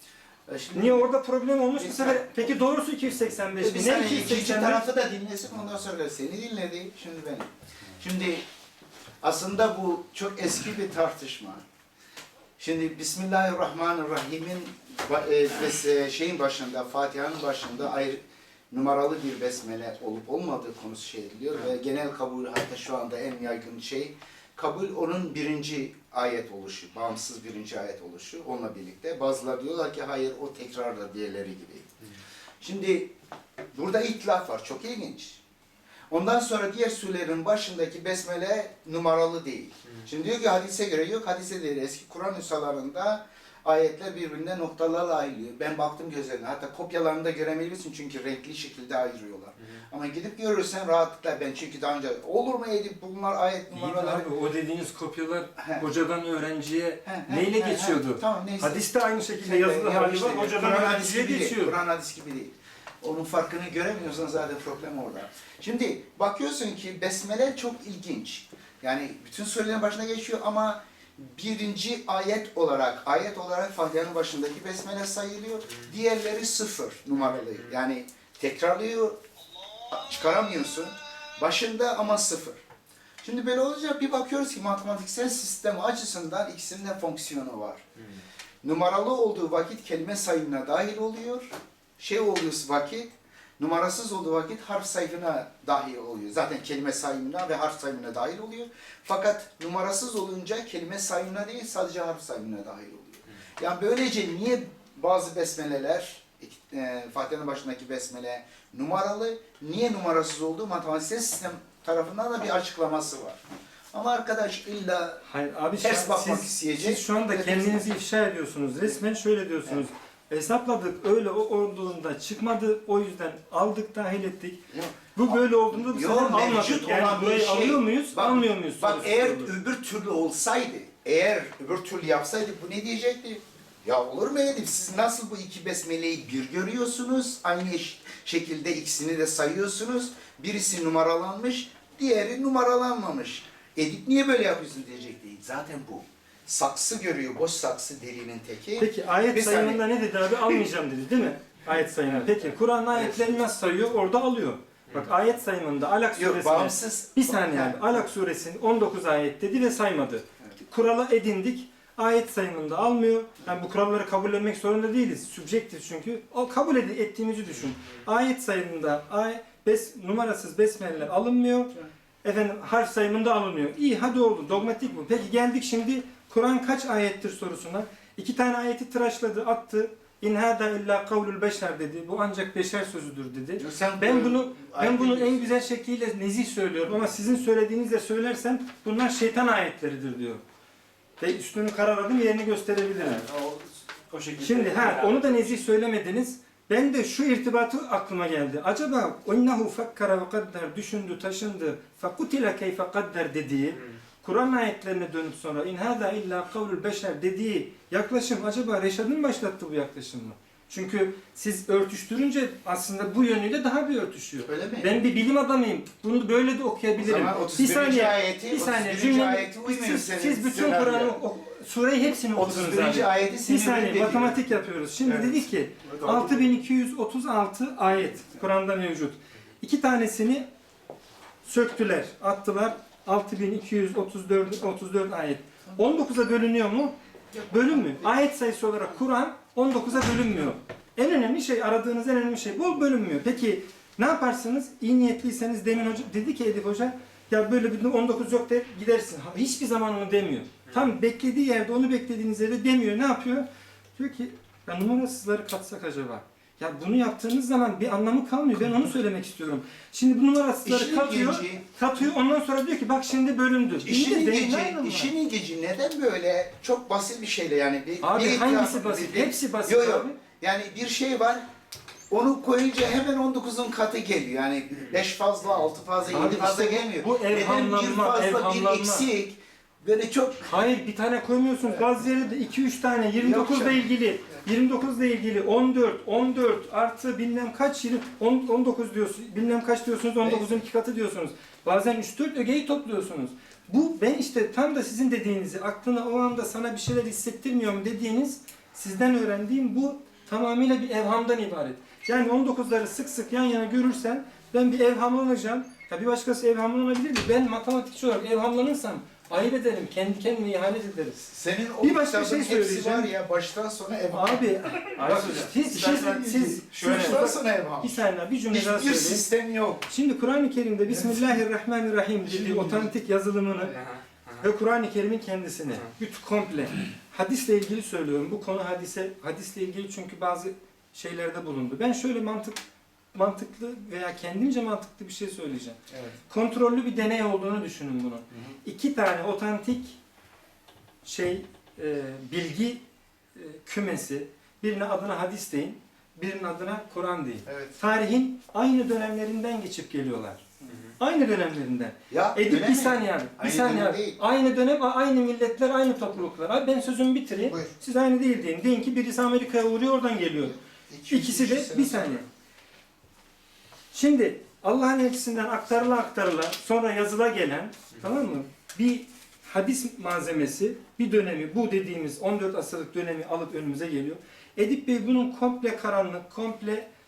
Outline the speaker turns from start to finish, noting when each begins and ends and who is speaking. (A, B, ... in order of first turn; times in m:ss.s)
0:00.5-0:01.1 A
0:00.7-0:04.8 B
0:01.8-0:02.4 A
0:03.6-0:08.4 A
0:09.2-0:11.6 A
0:12.6-0:18.2 A
0:18.7-0:31.9 A
0:32.6-0:33.1 A
0:33.7-0:35.4 A
0:36.1-0:54.3 A
0:53.7-1:01.8 B
0:55.6-0:55.8 A
0:57.0-0:58.8 A
0:59.4-1:19.2 A
1:19.9-1:22.6 A
1:23.2-1:27.8 A
1:28.6-1:31.5 A
1:32.0-1:53.4 A
1:53.9-1:55.2 A
1:55.3-2:04.6 B
1:55.8-1:57.9 A
2:04.7-2:29.8 A
2:05.2-2:09.5 B
2:28.8-2:51.7 B
2:32.9-2:33.4 A
2:36.2-2:38.1 A
2:52.2-3:10.4 B
3:03.6-3:05.5 A
3:11.2-3:13.3 B
3:13.2-3:15.4 C
3:14.4-3:50.4 B
3:34.5-3:34.9 A
3:37.0-3:41.2 A
3:42.3-3:44.5 A
3:45.0-3:46.5 A
3:51.4-3:56.9 B
3:57.3-3:58.1 A
3:57.5-4:25.1 B
4:20.6-4:21.6 A
4:23.8-4:31.4 A
4:28.0-4:30.2 B
4:32.1-4:40.6 A
4:36.1-4:39.1 B
4:40.5-5:13.1 B
4:43.2-4:43.9 A
4:50.2-4:50.6 A
5:11.3-5:19.8 A
5:14.1-5:19.2 B
5:19.9-5:23.8 B
5:22.3-5:22.9 A
5:24.4-5:32.6 B
5:33.1-5:40.0 B
5:35.9-5:36.2 A
5:38.3-5:38.6 A
5:41.0-5:42.8 B
5:43.4-5:50.4 B
5:47.5-5:47.8 A
5:51.0-6:00.6 B
5:52.1-5:54.2 A
6:00.4-6:02.2 A
6:01.1-6:02.2 B
6:03.9-6:16.9 B